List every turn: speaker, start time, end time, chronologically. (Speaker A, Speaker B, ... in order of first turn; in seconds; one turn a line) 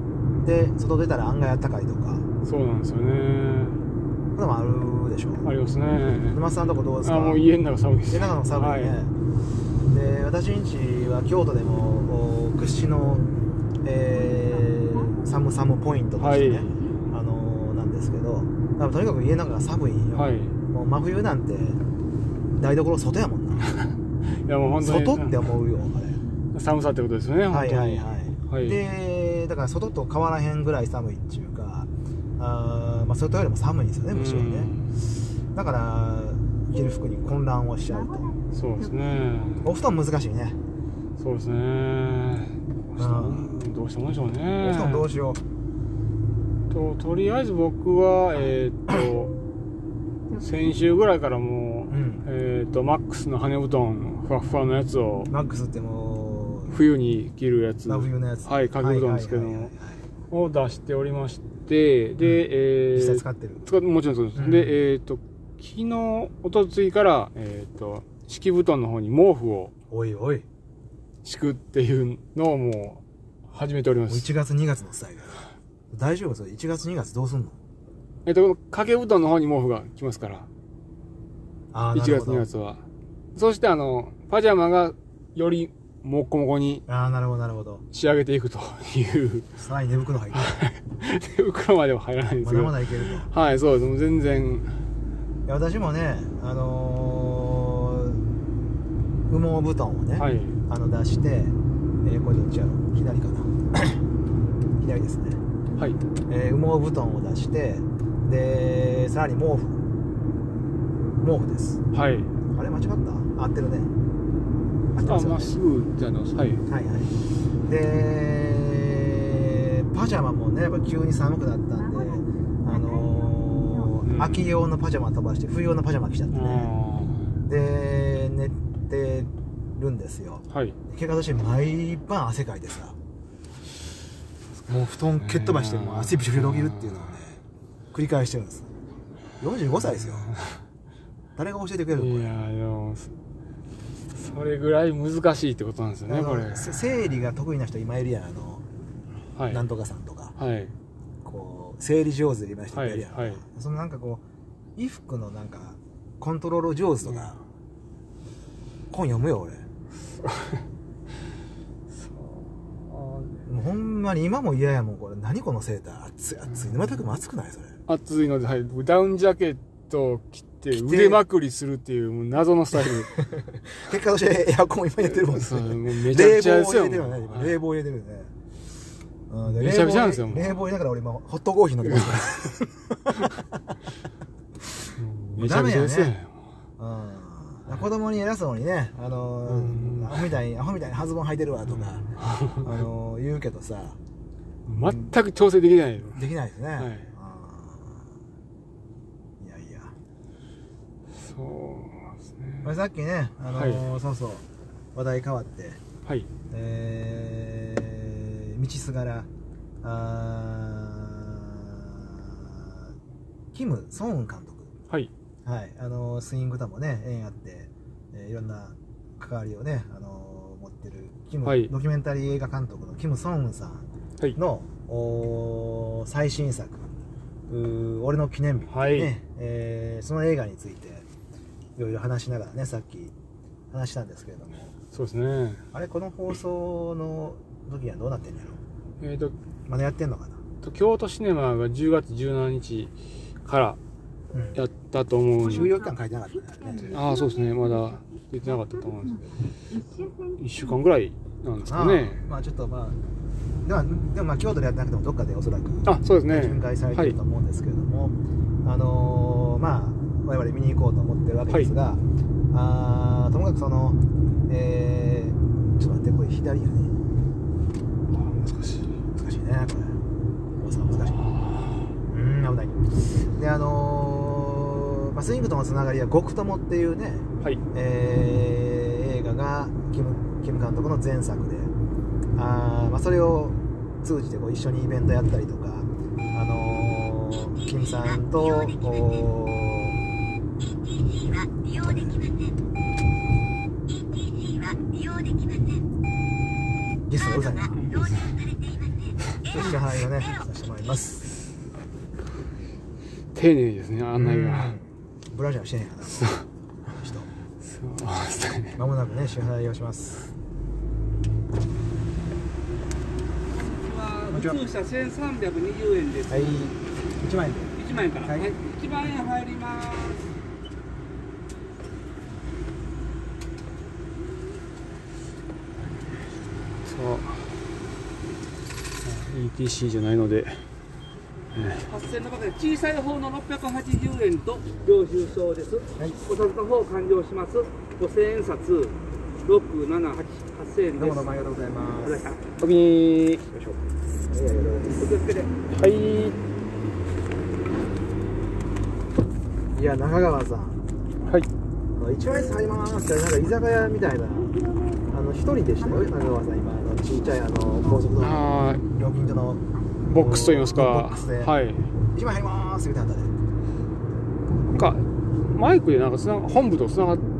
Speaker A: 0.4-2.2
Speaker B: 2.4-3.8
Speaker A: 4.3-5.5
Speaker B: 5.4-6.4
Speaker A: 6.3-7.4
Speaker B: 7.0-9.0
Speaker A: 8.1-9.1
Speaker A: 9.9-13.2
Speaker A: 13.8-21.8
Speaker B: 16.2-16.8
Speaker B: 20.1-20.5
Speaker A: 22.5-23.7
Speaker B: 23.6-23.9
Speaker B: 24.4-25.4
Speaker A: 24.8-26.2
Speaker B: 26.5-28.8
Speaker A: 27.5-34.7
Speaker B: 34.1-34.9
Speaker A: 35.5-38.3
Speaker B: 38.5-39.6
Speaker A: 39.6-40.6
Speaker B: 41.2-45.1
Speaker A: 43.0-43.7
Speaker A: 44.6-45.4
Speaker B: 46.7-49.4
Speaker B: 50.4-55.3
Speaker A: 51.9-52.2
Speaker A: 55.3-56.8
Speaker B: 56.7-59.7
Speaker A: 57.9-60.0
Speaker B: 60.3-69.7
Speaker A: 62.9-63.6
Speaker A: 64.3-64.8
Speaker A: 69.9-70.5
Speaker B: 71.2-74.3
Speaker A: 74.1-77.5
Speaker B: 78.2-80.5
Speaker A: 81.7-82.5
Speaker B: 81.9-82.8
Speaker B: 83.3-86.8
Speaker A: 86.9-87.8
Speaker B: 87.9-89.5
Speaker A: 89.6-90.6
Speaker B: 90.3-94.7
Speaker A: 92.4-93.3
Speaker A: 95.5-98.2
Speaker A: 99.3-104.0
Speaker B: 100.2-100.5
Speaker A: 104.8-105.4
Speaker A: 106.3-109.8
Speaker A: 111.2-111.8
Speaker B: 111.9-112.3
Speaker A: 112.5-113.9
Speaker A: 114.9-115.5
Speaker B: 115.0-116.6
Speaker A: 116.7-117.1
Speaker A: 117.7-126.7
Speaker B: 124.0-124.4
Speaker B: 126.3-127.3
Speaker A: 127.5-132.9
Speaker B: 130.5-130.8
Speaker B: 134.7-137.1
Speaker A: 134.7-137.4
Speaker A: 137.9-138.7
Speaker A: 139.4-140.3
Speaker B: 140.3-140.6
Speaker A: 141.4-142.3
Speaker B: 141.9-143.1
Speaker B: 144.2-146.7
Speaker A: 146.1-148.6
Speaker B: 149.3-149.6
Speaker A: 149.5-150.3
Speaker B: 150.4-150.7
Speaker A: 151.2-154.2
Speaker B: 152.7-153.4
Speaker A: 154.8-157.4
Speaker B: 157.0-157.3
Speaker A: 158.9-159.6
Speaker B: 161.9-163.4
Speaker A: 163.5-167.7
Speaker B: 167.9-173.1
Speaker A: 170.7-171.2
Speaker A: 173.1-178.3
Speaker B: 175.0-177.6
Speaker A: 179.3-183.4
Speaker B: 179.5-180.6
Speaker B: 181.8-182.3
Speaker B: 185.0-186.3
Speaker A: 185.4-186.1
Speaker A: 186.8-192.1
Speaker B: 189.4-190.3
Speaker B: 191.7-192.7
Speaker A: 192.6-194.0
Speaker B: 194.7-196.3
Speaker A: 194.8-195.1
Speaker A: 196.1-198.0
Speaker B: 196.8-197.1
Speaker A: 199.4-199.9
Speaker B: 201.2-202.7
Speaker A: 202.6-205.8
Speaker B: 203.5-203.9
Speaker A: 206.5-209.3
Speaker A: 209.8-212.8
Speaker A: 213.5-214.7
Speaker A: 215.4-226.8
Speaker B: 221.4-221.7
Speaker A: 227.5-231.1
Speaker B: 228.7-229.1
Speaker A: 231.8-233.1
Speaker A: 233.7-234.7
Speaker B: 234.9-235.6
Speaker A: 235.7-238.6
Speaker B: 239.0-239.3
Speaker A: 239.7-240.4
Speaker B: 240.6-242.9
Speaker B: 243.4-243.8
Speaker B: 244.6-245.7
Speaker A: 245.4-247.0
Speaker B: 246.8-249.3
Speaker B: 250.2-252.2
Speaker A: 251.6-253.0
Speaker A: 253.6-266.9
Speaker B: 255.8-257.2
Speaker B: 268.1-268.9
Speaker A: 269.1-270.0
Speaker A: 270.6-271.1
Speaker B: 271.0-271.9
Speaker A: 272.1-281.7
Speaker A: 282.4-290.0
Speaker A: 291.7-292.2
Speaker A: 297.1-297.8
Speaker B: 297.8-298.2
Speaker A: 299.4-301.2
Speaker B: 303.3-304.8
Speaker A: 304.1-306.3
Speaker B: 306.1-306.4
Speaker A: 306.9-307.3
Speaker B: 307.6-308.8
Speaker A: 308.8-310.2
Speaker C: 313.5-316.7
Speaker A: 314.3-314.6
Speaker A: 316.3-318.5
Speaker C: 317.8-320.2
Speaker B: 326.8-327.5
Speaker B: 329.0-330.6
Speaker B: 331.5-331.9
Speaker C: 331.9-341.3
Speaker A: 340.9-342.3
Speaker C: 342.0-342.4
Speaker B: 342.6-343.4
Speaker A: 343.5-345.1
Speaker C: 344.9-345.6
Speaker B: 345.7-346.4
Speaker A: 349.7-350.8
Speaker A: 351.9-354.6
Speaker A: 355.1-361.5
Speaker B: 358.2-358.8
Speaker B: 360.1-361.9
Speaker A: 362.1-363.3
Speaker B: 364.7-367.2